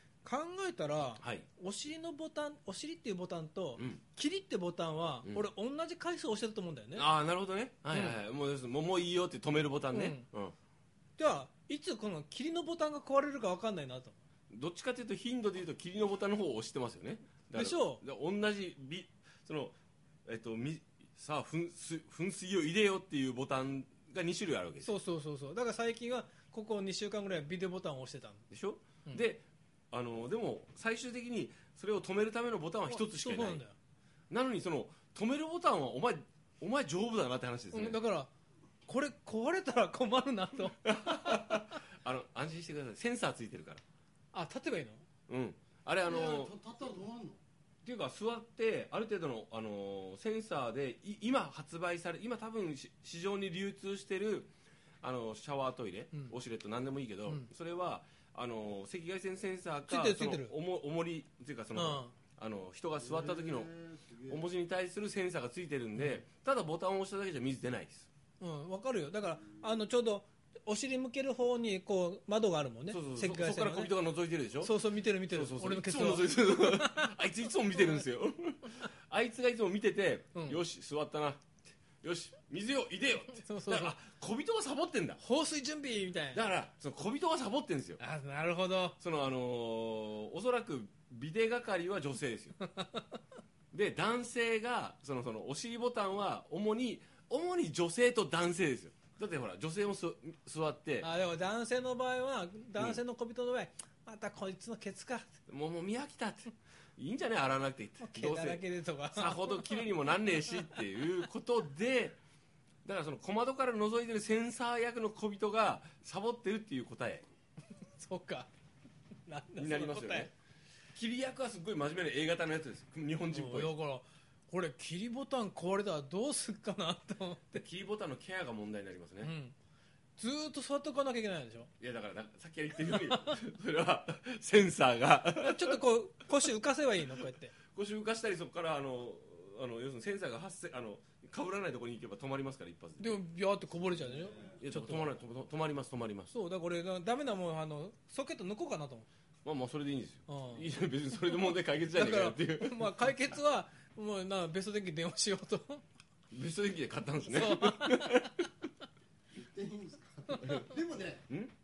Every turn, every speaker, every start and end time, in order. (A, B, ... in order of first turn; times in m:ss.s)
0:00.2-0:07.1 A
0:01.2-0:01.5 B
0:07.0-0:10.5 B
0:07.9-0:08.2 A
0:09.9-0:10.3 A
0:11.2-0:14.2 A
0:14.5-0:24.9 B
0:17.5-0:18.0 A
0:24.8-0:28.4 A
0:28.5-0:33.6 B
0:32.9-0:33.8 A
0:34.3-0:38.0 B
0:37.7-0:38.3 A
0:38.9-0:41.6 A
0:40.8-0:43.8 B
0:44.3-0:45.0 A
0:45.3-0:46.5 B
0:46.0-0:47.4 C
0:47.8-0:54.5 B
0:55.0-1:03.7 B
0:59.9-1:00.5 A
1:01.7-1:02.1 A
1:03.0-1:04.5 C
1:04.3-1:08.1 B
1:08.4-1:13.9 A
1:12.9-1:25.2 B
1:14.6-1:17.2 A
1:17.8-1:18.0 A
1:20.4-1:20.6 A
1:23.4-1:24.0 A
1:25.2-1:26.4 A
1:26.3-1:28.0 B
1:28.0-1:29.0 A
1:29.0-1:32.6 B
1:32.6-1:33.1 A
1:33.7-1:41.1 B
1:41.0-1:45.3 A
1:45.5-1:52.2 B
1:48.0-1:49.9 A
1:52.8-1:57.3 B
1:57.9-1:58.5 A
1:59.3-2:00.3 A
1:59.6-2:00.3 B
2:00.9-2:03.7 B
2:03.3-2:07.6 A
2:07.6-2:09.3 B
2:09.2-2:09.6 A
2:10.2-2:11.7 A
2:11.8-2:15.8 B
2:15.4-2:17.6 A
2:17.7-2:23.2 B
2:23.0-2:25.1 A
2:23.9-2:24.6 C
2:24.6-2:26.3 B
2:26.3-2:29.1 A
2:29.4-2:33.0 B
2:30.3-2:30.7 A
2:31.3-2:35.8 A
2:36.3-2:38.4 B
2:37.3-2:38.5 A
2:39.3-2:41.3 C
2:40.4-2:40.8 B